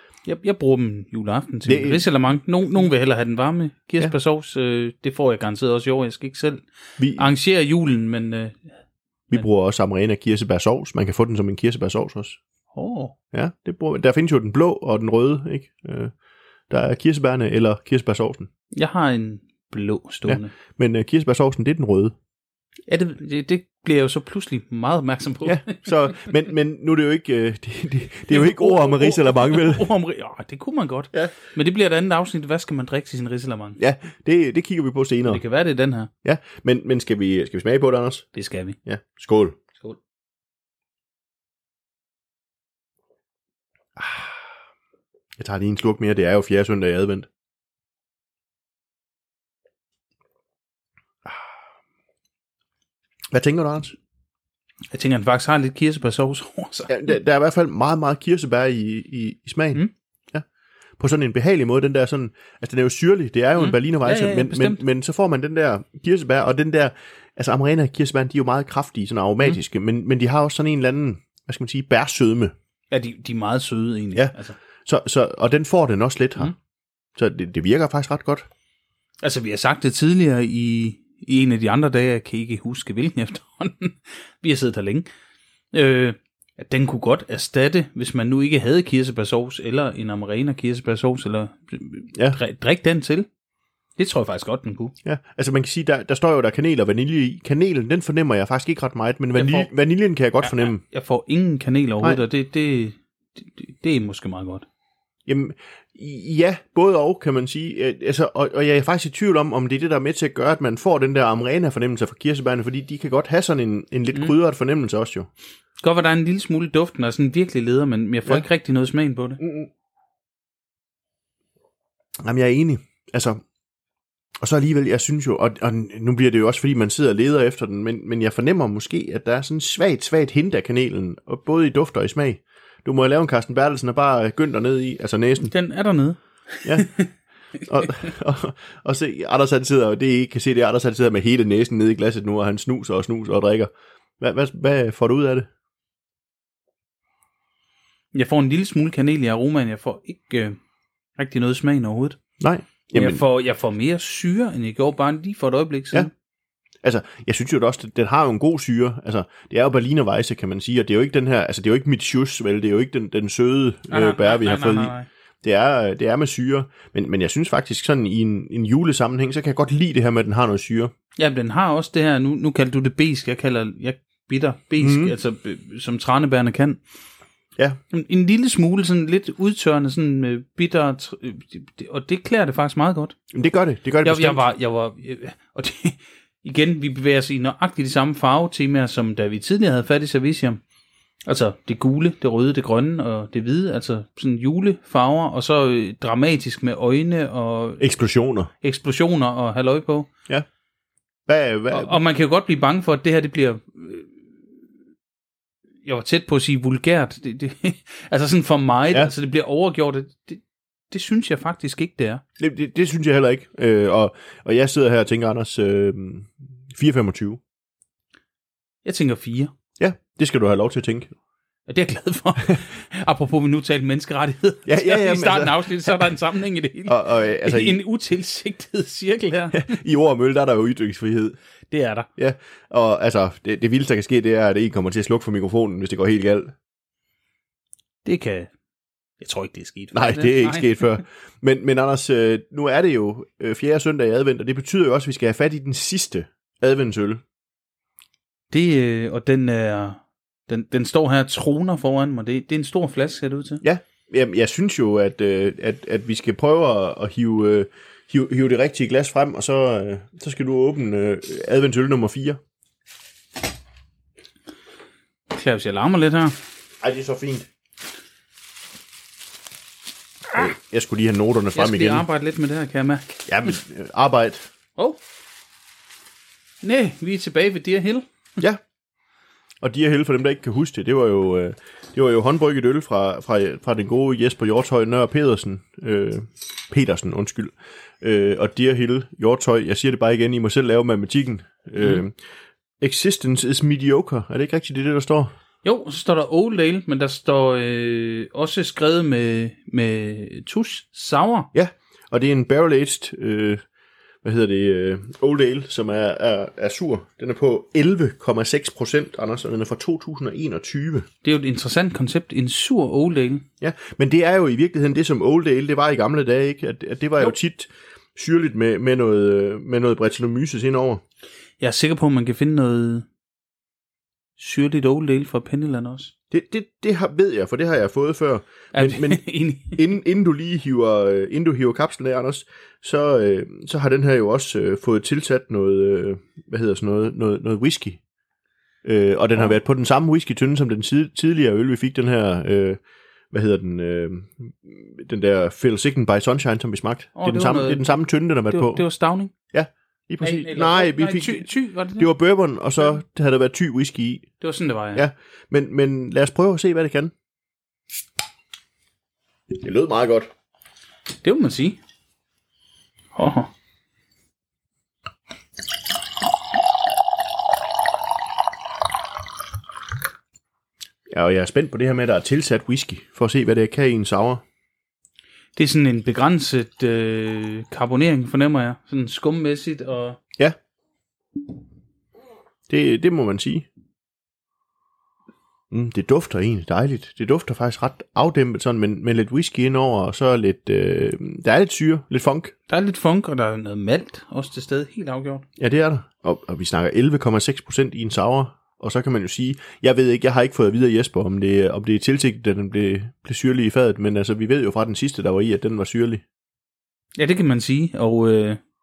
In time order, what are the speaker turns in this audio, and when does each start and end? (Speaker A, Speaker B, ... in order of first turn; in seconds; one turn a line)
Speaker A: 0.2-8.7
Speaker B: 1.6-2.0
Speaker B: 7.0-7.3
Speaker B: 9.3-12.4
Speaker A: 12.7-13.1
Speaker B: 13.3-16.1
Speaker B: 16.7-18.5
Speaker A: 18.7-20.5
Speaker B: 20.3-22.1
Speaker A: 22.9-26.3
Speaker B: 25.4-29.9
Speaker A: 28.3-33.8
Speaker B: 33.8-35.4
Speaker A: 35.2-36.1
Speaker B: 36.2-38.3
Speaker A: 38.3-38.8
Speaker B: 38.9-39.6
Speaker B: 44.0-44.4
Speaker B: 45.4-47.3
Speaker B: 53.3-54.0
Speaker A: 54.9-56.9
Speaker B: 56.9-60.4
Speaker B: 61.0-72.5
Speaker A: 63.5-64.8
Speaker A: 72.9-74.6
Speaker B: 74.1-76.5
Speaker B: 77.2-78.5
Speaker A: 79.2-85.1
Speaker A: 85.7-93.3
Speaker A: 94.0-94.9
Speaker B: 95.0-100.8
Speaker A: 99.3-99.7
Speaker A: 100.4-104.6
Speaker B: 105.3-115.3
Speaker A: 115.8-119.4
Speaker B: 119.4-119.7
Speaker B: 122.2-123.4
Speaker B: 124.4-135.5
Speaker A: 135.4-137.1
Speaker B: 137.6-145.5
Speaker A: 148.1-150.6
Speaker A: 151.2-152.2
Speaker B: 152.4-153.2
Speaker A: 152.9-156.1
Speaker B: 156.8-170.9
Speaker A: 163.9-165.1
Speaker A: 171.2-176.8
Speaker B: 174.8-175.2
Speaker A: 177.9-183.1
Speaker B: 183.3-184.4
Speaker A: 184.0-190.6
Speaker A: 191.2-197.8
Speaker B: 197.8-198.5
Speaker A: 198.6-200.1
Speaker B: 201.3-202.0
Speaker A: 201.7-204.1
Speaker A: 205.8-212.2
Speaker B: 212.4-217.4
Speaker A: 218.8-219.5
Speaker B: 219.8-221.1
Speaker A: 221.7-229.7
Speaker B: 224.7-226.1
Speaker B: 226.9-227.8
Speaker B: 229.5-231.3
Speaker A: 231.7-232.1
Speaker B: 232.2-236.5
Speaker A: 238.0-238.5
Speaker A: 239.2-240.9
Speaker B: 239.9-247.2
Speaker A: 248.5-253.6
Speaker B: 253.6-262.4
Speaker A: 265.3-266.4
Speaker B: 266.8-267.5
Speaker B: 270.3-272.1
Speaker A: 271.5-273.1
Speaker B: 273.2-274.5
Speaker A: 276.6-278.1
Speaker B: 279.6-292.1
Speaker B: 292.8-295.3
Speaker A: 295.6-301.5
Speaker B: 301.5-303.6
Speaker B: 304.2-311.1
Speaker A: 311.2-313.4
Speaker B: 313.6-321.0
Speaker A: 321.6-323.1
Speaker A: 324.4-326.1
Speaker B: 326.3-338.0
Speaker A: 328.7-329.8
Speaker B: 338.8-342.8
Speaker B: 343.3-348.8
Speaker A: 347.1-348.0
Speaker A: 348.5-349.3
Speaker B: 349.5-354.3
Speaker A: 350.2-352.1
Speaker A: 354.4-355.0
Speaker B: 354.9-357.1
Speaker B: 359.5-360.3
Speaker A: 361.2-361.8
Speaker A: 363.1-363.5
Speaker B: 371.1-374.4
Speaker A: 375.6-380.2
Speaker B: 382.7-383.7
Speaker B: 385.7-392.5
Speaker A: 392.7-395.4
Speaker B: 395.6-406.2
Speaker A: 407.2-408.6